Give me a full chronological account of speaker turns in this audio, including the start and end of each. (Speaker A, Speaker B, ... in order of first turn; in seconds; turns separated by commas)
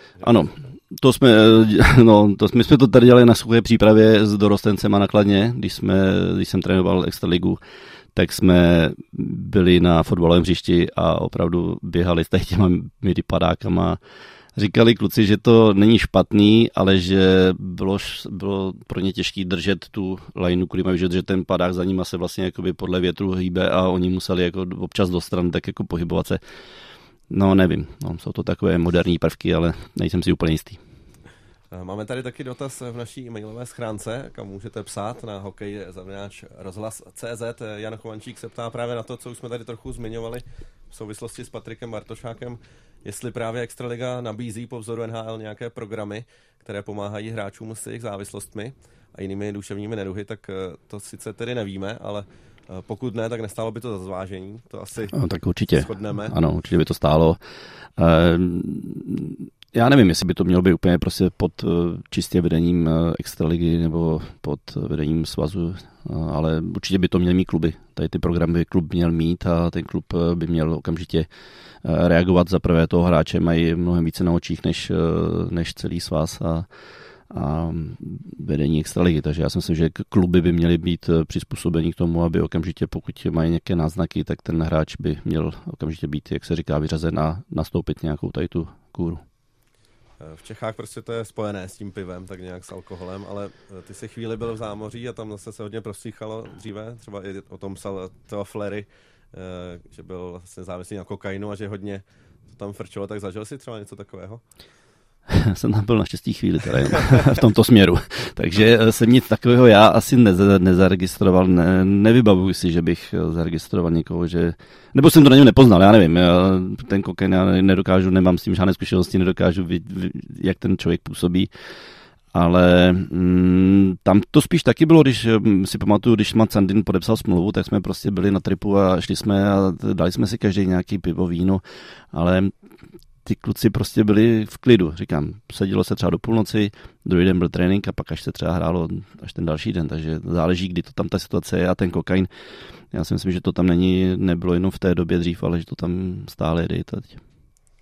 Speaker A: 0.2-0.7, Speaker B: 0.2-7.6, Speaker B: 8.1-14.0, Speaker B: 14.6-26.4, Speaker B: 27.3-30.8, Speaker A: 31.7-55.1, Speaker B: 55.1-57.4, Speaker A: 55.7-56.4, Speaker B: 58.0-71.3, Speaker B: 71.8-76.7, Speaker B: 77.3-89.2, Speaker A: 90.2-104.4, Speaker B: 105.3-121.5, Speaker B: 122.3-131.6, Speaker B: 132.1-132.5, Speaker B: 133.2-142.3, Speaker B: 142.9-147.2